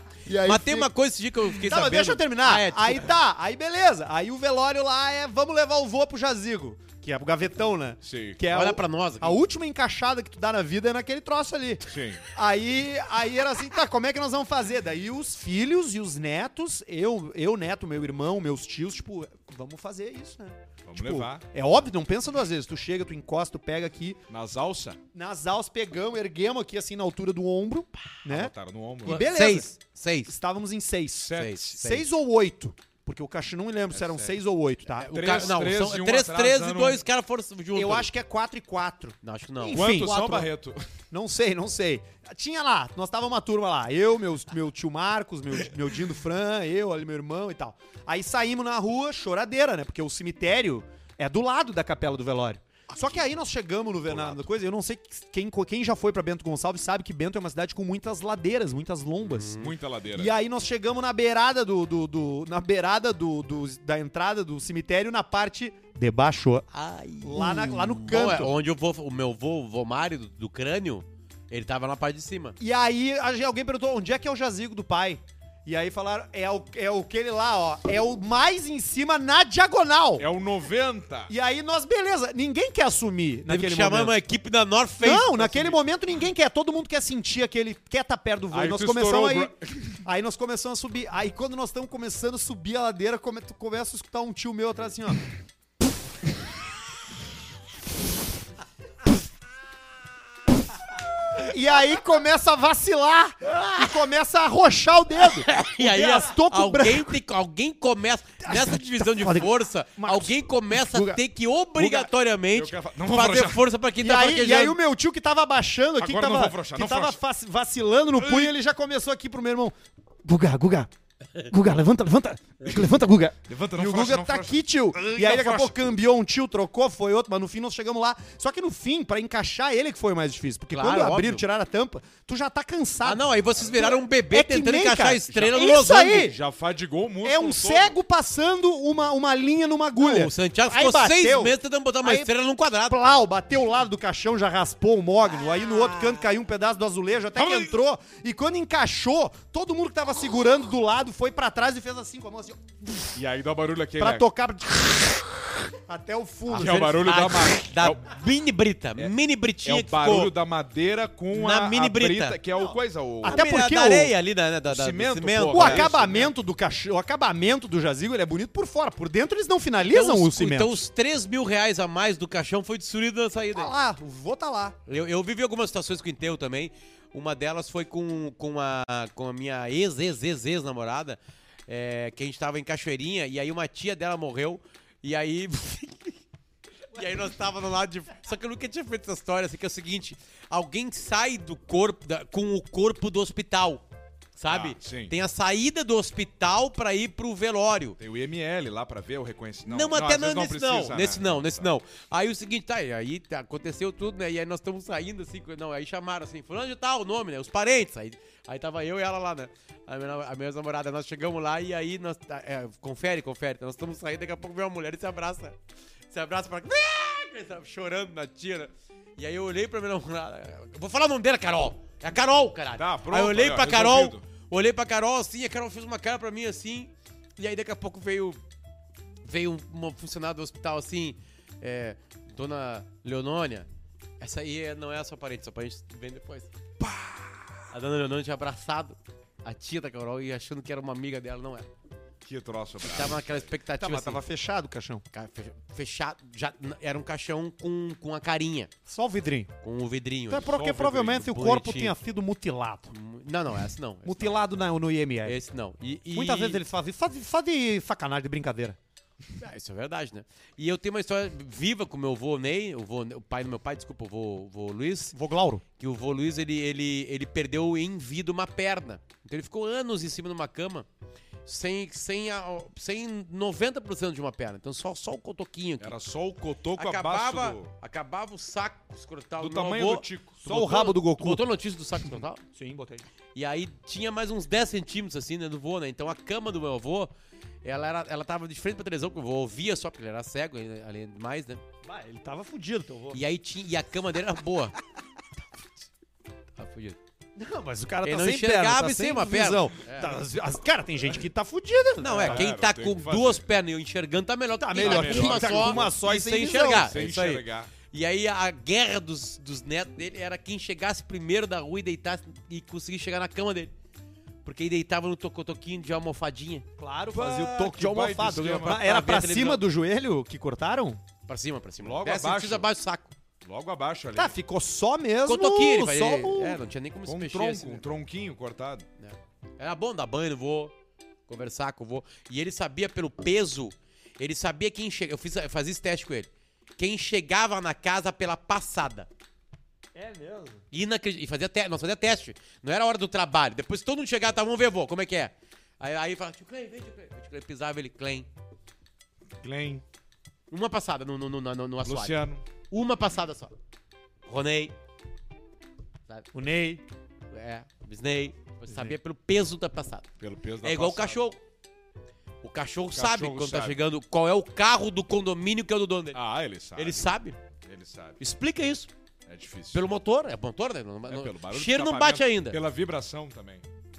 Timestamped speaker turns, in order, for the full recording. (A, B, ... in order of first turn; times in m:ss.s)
0:00.2-0:00.9 A
0:00.4-0:03.1 B
0:01.6-0:24.2 A
0:08.0-0:08.4 C
0:08.5-0:09.4 B
0:11.9-0:12.2 C
0:20.8-0:21.4 C
0:24.3-0:25.0 C
0:25.1-0:28.5 A
0:28.2-0:29.3 C
0:29.0-0:29.7 A
0:29.0-0:30.3 B
0:30.2-0:35.5 A
0:31.2-0:31.7 C
0:31.3-0:32.0 B
0:33.9-0:34.3 C
0:35.0-0:38.1 B
0:35.1-0:37.0 C
0:37.7-0:40.5 A
0:39.2-0:40.0 B
0:39.7-0:40.8 C
0:41.1-0:59.6 A
0:54.1-0:54.4 C
0:59.2-0:59.7 B
0:59.6-1:00.3 C
1:00.1-1:06.7 A
1:06.7-1:12.6 B
1:07.2-1:08.5 A
1:12.6-1:20.3 A
1:20.2-1:21.3 C
1:21.3-1:24.2 A
1:23.5-1:25.6 B
1:25.0-1:29.5 A
1:25.4-1:25.8 C
1:28.5-1:30.0 C
1:30.0-1:35.2 A
1:41.4-1:47.2 A
1:43.6-1:43.8 B
1:45.4-1:54.8 B
1:48.4-1:51.2 A
1:51.8-1:53.7 C
1:54.0-2:16.4 A
1:56.0-1:57.2 C
1:58.2-1:58.5 C
2:03.5-2:05.9 C
2:10.7-2:11.4 B
2:13.0-2:16.2 B
2:15.3-2:17.9 C
2:17.2-2:22.3 A
2:20.0-2:23.0 B
2:22.9-2:33.1 A
2:27.4-2:27.8 C
2:33.1-2:34.3 C
2:34.0-2:35.1 A
2:35.8-2:37.1 A
2:36.5-2:38.1 C
2:36.5-2:40.3 B
2:39.0-2:43.4 C
2:41.3-2:42.4 B
2:42.6-2:44.1 A
2:43.2-2:45.9 B
2:44.6-2:46.3 C
2:45.5-2:50.8 A
2:49.9-2:53.7 B
2:53.5-2:54.8 A
2:54.9-3:06.2 B
3:06.9-3:13.8 B
3:14.4-3:18.0 B
3:14.5-3:15.1 C
3:18.0-3:21.7 C
3:19.6-3:35.6 B
3:36.1-3:48.4 B
3:42.8-3:44.2 C
3:49.2-3:53.7 B
3:54.2-3:56.5 B
3:56.8-3:57.7 C
3:57.7-4:01.7 B
4:02.2-4:03.4 C
4:02.8-4:04.2 B
4:03.8-4:05.0 A
4:05.1-4:08.7 B
4:08.8-4:09.5 A
4:09.6-4:11.9 B
4:10.3-4:12.9 A
4:10.4-4:11.3 C
4:12.9-4:14.4 B
4:14.0-4:15.4 A
4:15.2-4:16.6 B
4:16.1-4:18.8 A
4:19.4-4:25.2 B
4:25.1-4:25.6 A
4:25.8-4:30.8 B
4:31.4-4:36.0 B
4:35.8-4:37.7 C
4:36.8-4:40.0 B
4:39.4-4:41.0 C
4:40.4-4:41.4 A
4:41.2-4:42.4 B
4:42.2-4:43.0 A
4:43.3-4:47.1 B
4:47.6-4:51.6 B
4:51.8-4:53.2 A
4:53.1-4:54.7 B
4:56.6-4:57.0 B
4:57.4-5:02.5 A
4:58.0-5:00.2 B
5:02.0-5:13.7 B
5:02.2-5:03.5 C
5:04.6-5:06.9 A
5:04.8-5:06.0 C
5:06.6-5:07.7 C
5:14.4-5:16.6 B
5:16.8-5:21.0 A
5:17.1-5:18.9 C
5:18.6-5:19.6 B
5:21.3-5:23.1 B
5:21.8-5:22.7 C
5:23.4-5:24.4 C
5:24.1-5:26.6 A
5:25.2-5:27.8 B
5:27.0-5:28.8 C
5:29.0-5:30.7 B
5:31.3-5:39.1 B
5:39.9-5:40.6 A
5:40.7-5:48.3 B
5:49.4-5:49.8 C
5:50.5-5:53.5 B
5:51.8-5:52.4 C
5:54.2-5:54.7 B
5:56.3-5:56.8 A
5:57.3-6:00.0 B
6:00.2-6:01.2 C
6:00.6-6:01.4 B
6:02.4-6:06.2 B
6:02.9-6:03.8 C
6:06.1-6:08.2 C
6:06.7-6:07.4 B
6:08.2-6:08.9 B
6:09.3-6:09.8 C
6:09.7-6:12.6 B
6:11.1-6:13.6 C